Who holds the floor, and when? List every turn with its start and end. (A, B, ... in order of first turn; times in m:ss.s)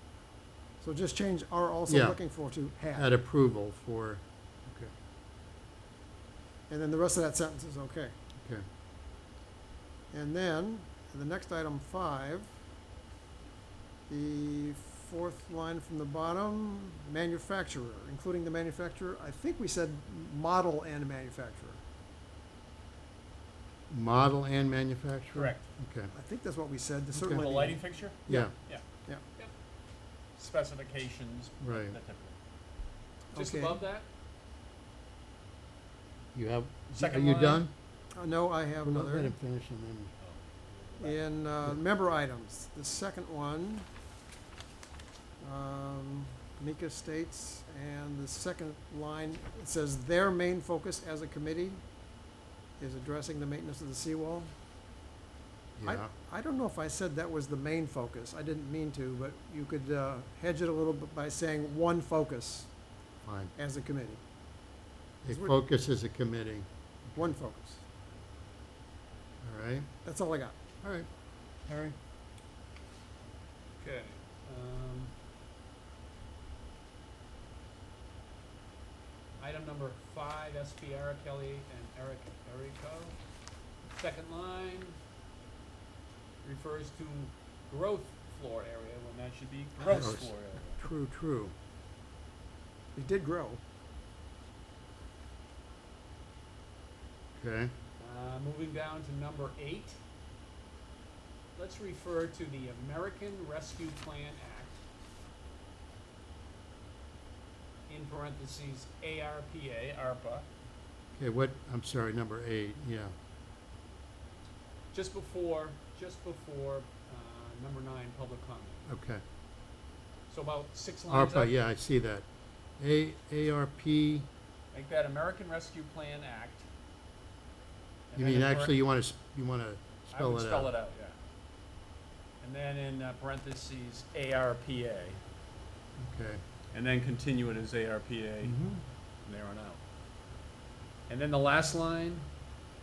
0:00.8-0:03.1 A
0:01.9-0:02.2 B
0:02.9-0:04.9 B
0:06.7-0:08.2 A
0:08.4-0:08.7 B
0:10.1-0:12.5 A
0:14.1-0:21.8 A
0:23.9-0:26.1 B
0:25.3-0:25.7 C
0:26.1-0:28.5 A
0:27.2-0:27.4 B
0:27.2-0:28.8 C
0:30.4-0:32.4 C
0:31.6-0:32.0 B
0:33.3-0:33.8 A
0:33.3-0:34.1 C
0:36.3-0:37.7 B
0:37.0-0:37.7 C
0:38.2-0:39.4 A
0:38.8-0:40.1 B
0:40.2-0:41.3 C
0:41.0-0:43.8 A
0:45.4-0:51.8 A
0:52.8-0:54.5 A
0:55.8-0:56.1 B
0:55.8-1:02.7 A
1:03.2-1:03.5 B
1:03.6-1:04.2 A
1:05.2-1:06.7 B
1:05.3-1:05.6 A
1:07.2-1:07.8 A
1:09.4-1:09.9 B
1:10.0-1:10.6 A
1:11.7-1:12.0 B
1:13.8-1:15.1 C
1:19.4-1:23.2 C
1:23.9-1:25.0 C
1:26.4-1:30.8 C
1:29.8-1:31.5 B
1:32.9-1:33.6 A
1:37.4-1:37.7 B
1:38.0-1:40.0 C
1:41.6-1:44.8 C
1:47.9-1:50.4 C
1:51.2-1:53.1 B
1:54.9-1:58.9 C
1:58.9-1:59.2 B
2:00.3-2:01.5 C
2:01.1-2:02.2 B
2:02.8-2:04.2 B
2:04.7-2:06.7 C
2:08.1-2:08.8 C
2:08.2-2:10.7 B
2:10.1-2:11.2 C
2:12.4-2:15.2 C
2:16.0-2:16.4 B
2:16.7-2:18.6 C
2:18.4-2:18.8 B
2:19.2-2:19.8 C
2:21.1-2:22.2 C